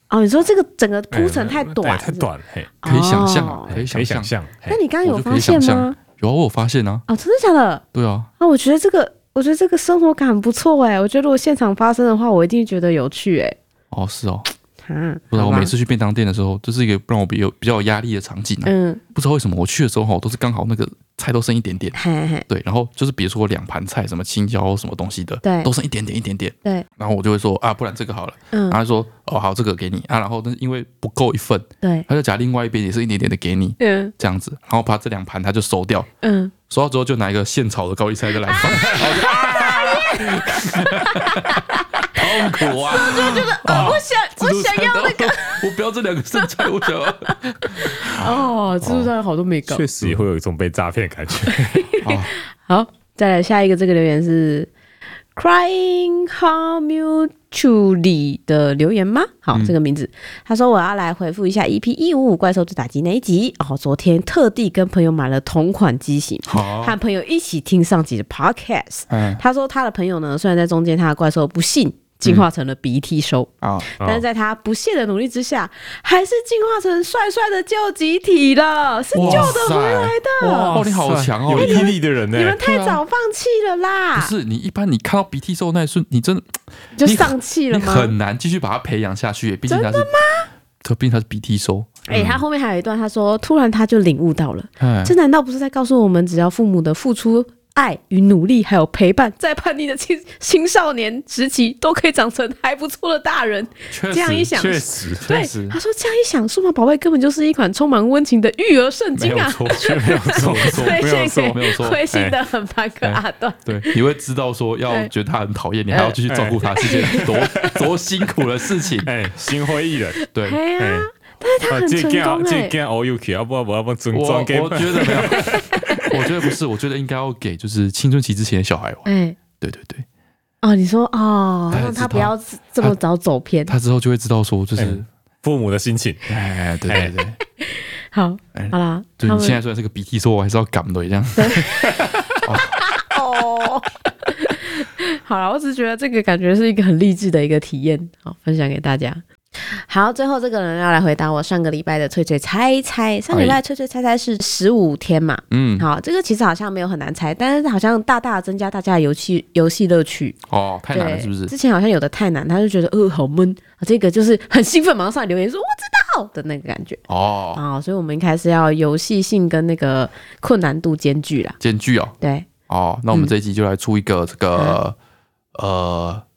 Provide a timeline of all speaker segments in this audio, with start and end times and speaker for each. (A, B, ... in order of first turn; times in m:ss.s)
0:00.1-0:02.3 A
0:01.1-0:02.7 B
0:02.8-0:03.7 A
0:02.8-0:04.3 C
0:03.7-0:04.8 B
0:04.7-0:06.0 A
0:05.0-0:07.1 C
0:07.1-0:07.8 A
0:07.9-0:08.3 C
0:08.4-0:13.6 A
0:13.9-0:14.5 C
0:14.8-0:15.7 A
0:15.3-0:36.1 C
0:18.6-0:19.0 A
0:21.9-0:22.5 A
0:25.4-0:25.7 A
0:28.5-0:28.8 A
0:31.8-0:32.1 A
0:33.8-0:34.1 A
0:36.2-0:36.5 A
0:36.7-0:48.0 C
0:38.5-0:45.7 A
0:46.4-0:46.7 A
0:47.3-0:49.8 A
0:49.7-0:51.9 B
0:51.8-0:54.7 A
0:52.0-0:52.3 C
0:55.4-1:20.8 A
1:06.5-1:07.0 C
1:09.1-1:09.4 C
1:13.6-1:13.9 C
1:14.0-1:14.2 B
1:19.1-1:20.2 C
1:19.2-1:19.6 B
1:20.4-1:22.6 B
1:20.7-1:21.9 C
1:21.5-1:24.3 A
1:22.6-1:23.0 C
1:24.2-1:30.1 C
1:27.0-1:28.1 A
1:29.7-1:30.5 A
1:30.8-1:32.4 C
1:32.1-1:54.0 A
1:34.8-1:35.2 C
1:43.9-1:44.5 C
1:44.5-1:45.3 B
1:45.2-1:45.8 C
1:49.2-1:52.0 C
1:49.7-1:51.6 B
1:52.1-1:52.4 B
1:53.1-1:59.1 C
1:55.9-1:57.7 A
1:56.3-1:57.7 B
1:59.0-2:00.2 B
2:00.3-2:00.6 C
2:00.4-2:02.8 A
2:00.8-2:01.1 B
2:01.7-2:06.0 B
2:04.1-2:09.1 C
2:05.4-2:06.1 A
2:09.1-2:09.4 A
2:09.6-2:10.1 C
2:10.6-2:13.7 A
2:11.7-2:13.0 C
2:13.7-2:15.1 C
2:14.8-2:16.3 B
2:16.3-2:17.4 C
2:16.9-2:17.2 B
2:17.6-2:19.6 A
2:18.5-2:22.8 C
2:21.4-2:40.4 A
2:33.3-2:33.6 C
2:35.5-2:35.9 C
2:40.5-2:41.5 C
2:40.9-2:47.0 A
2:47.1-2:47.6 C
2:47.6-2:51.6 A
2:51.6-2:55.0 C
2:52.2-2:52.5 A
2:54.5-2:54.8 A
2:55.5-2:56.2 C